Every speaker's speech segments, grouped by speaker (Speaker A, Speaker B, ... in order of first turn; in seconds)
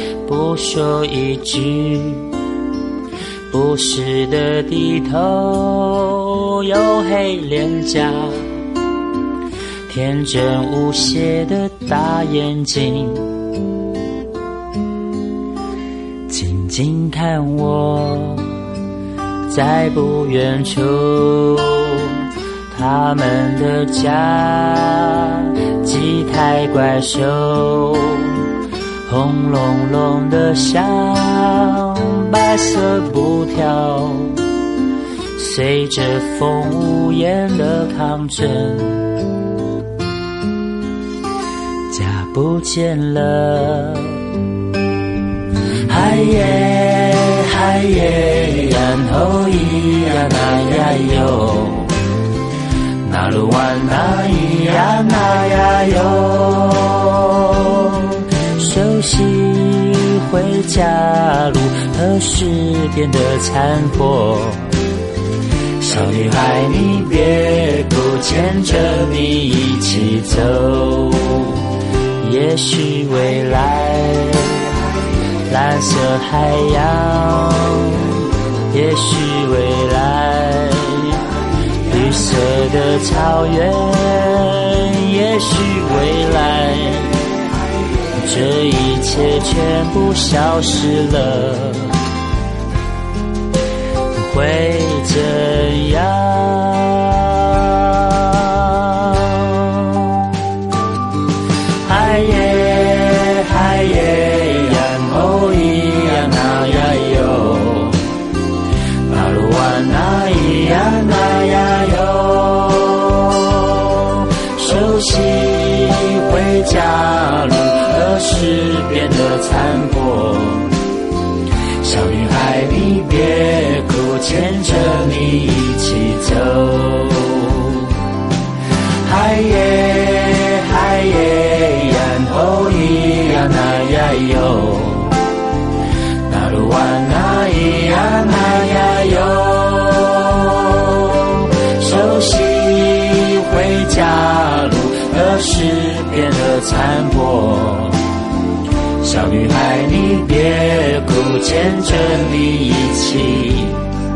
Speaker A: 0.3-2.3, 3.5-8.6, 9.9-13.4, 16.3-18.6, 19.5-22.2, 22.7-28.4, 29.1-34.4, 35.4-39.2, 41.9-44.2, 45.9-51.9, 53.0-64.7, 65.8-71.7, 72.2-74.8, 75.5-81.2, 81.8-87.3, 88.1-92.0, 94.1-100.1, 101.8-108.0, 109.1-120.8, 121.8-127.9, 129.0-135.2, 136.3-148.0, 149.0-153.8